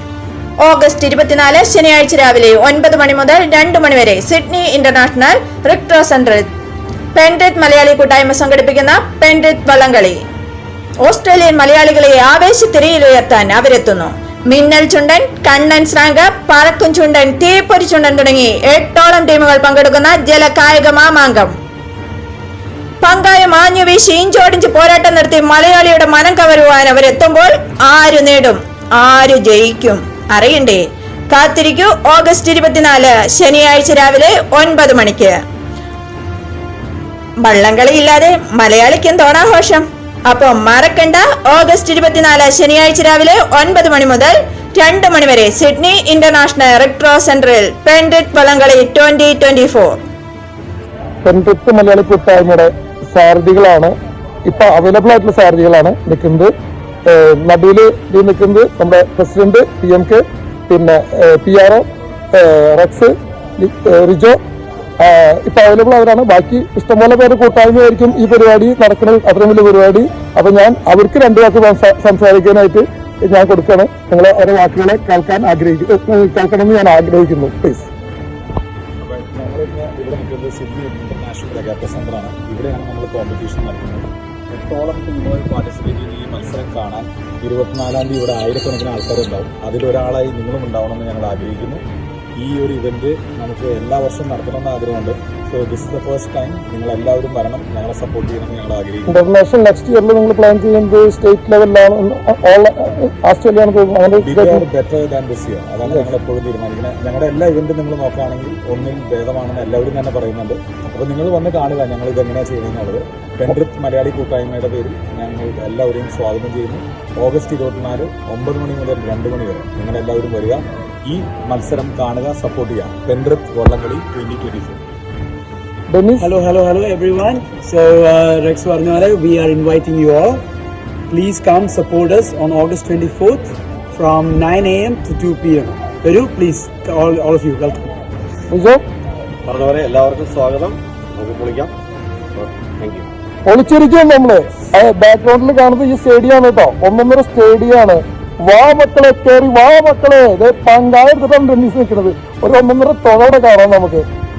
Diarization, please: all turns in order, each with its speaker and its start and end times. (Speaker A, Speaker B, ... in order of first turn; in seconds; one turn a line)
Speaker A: 0.6-6.5
Speaker A: 7.1-10.2
Speaker A: 11.0-21.5
Speaker A: 23.0-35.3
Speaker A: 37.4-50.0
Speaker B: 51.2-53.9
Speaker B: 54.5-56.5
Speaker B: 57.1-64.4
Speaker B: 65.0-77.9
Speaker C: 79.0-91.8
Speaker C: 92.4-99.2
Speaker B: 99.0-104.7
Speaker C: 104.2-124.8
Speaker B: 105.8-106.1
Speaker B: 125.9-126.3
Speaker D: 126.2-130.4
Speaker D: 131.1-137.8
Speaker B: 138.5-138.8
Speaker E: 139.5-141.7
Speaker E: 142.3-143.1
Speaker B: 143.4-154.0